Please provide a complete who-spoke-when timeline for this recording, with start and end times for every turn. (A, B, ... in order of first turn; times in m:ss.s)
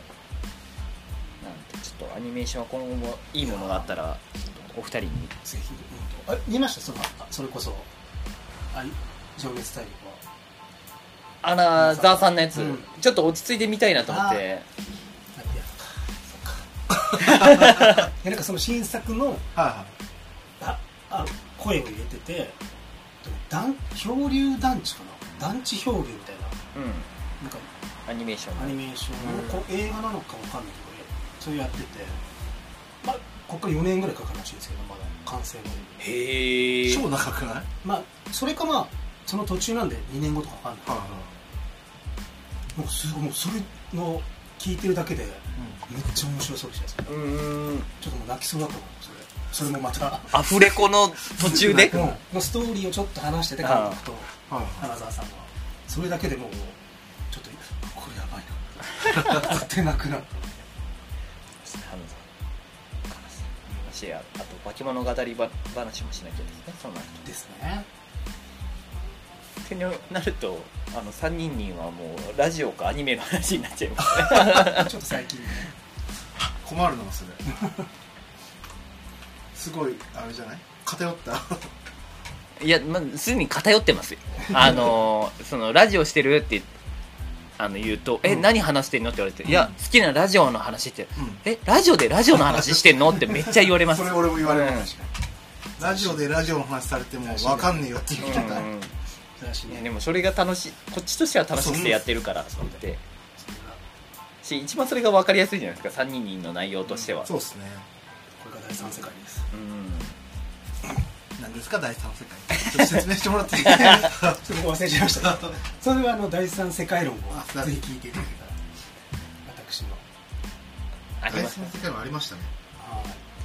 0:01.4-0:05.3 A
0:03.4-0:03.9 B
0:05.4-0:07.9 B
0:08.7-0:10.2 B
0:11.4-0:14.6 A
0:11.8-0:12.9 B
0:14.0-0:14.4 B
0:15.4-0:16.6 B
0:17.2-0:19.4 B
0:17.3-0:18.1 A
0:19.5-0:19.9 C
0:20.6-0:22.6 B
0:23.2-0:26.6 B
0:26.7-0:27.1 A
0:27.4-0:27.7 B
0:28.1-0:29.5 A
0:28.6-0:32.2 B
0:33.0-0:36.0 B
0:36.0-0:37.0 A
0:36.8-0:37.7 C
0:37.8-0:41.0 B
0:40.8-0:41.3 C
0:42.7-0:50.5 B
0:47.1-0:47.9 A
0:50.3-0:52.1 A
0:51.4-0:52.0 C
0:51.5-0:56.8 B
0:53.6-0:54.0 A
0:54.5-0:54.9 C
0:57.3-1:00.6 B
1:01.6-1:02.2 A
1:03.1-1:07.2 A
1:07.2-1:07.9 B
1:09.6-1:14.9 A
1:14.5-1:15.7 B
1:16.5-1:17.4 C
1:17.5-1:17.8 B
1:19.5-1:21.7 C
1:22.6-1:26.7 A
1:27.6-1:34.9 A
1:33.9-1:34.9 C
1:34.4-1:35.1 B
1:35.8-1:38.7 C
1:35.8-1:36.2 B
1:37.2-1:38.7 B
1:38.2-1:38.9 A
1:39.4-1:39.8 B
1:39.7-1:43.0 A
1:41.6-1:41.9 C
1:43.4-1:43.8 B
1:44.4-1:47.3 A
1:47.2-1:47.9 C
1:48.4-1:49.5 B
1:49.5-1:50.1 A
1:51.4-1:54.4 C
1:53.5-1:58.6 B
1:53.7-1:54.0 A
1:57.3-1:57.7 C
1:59.4-2:00.0 B
2:01.2-2:01.7 A
2:01.3-2:02.5 C
2:02.8-2:03.2 B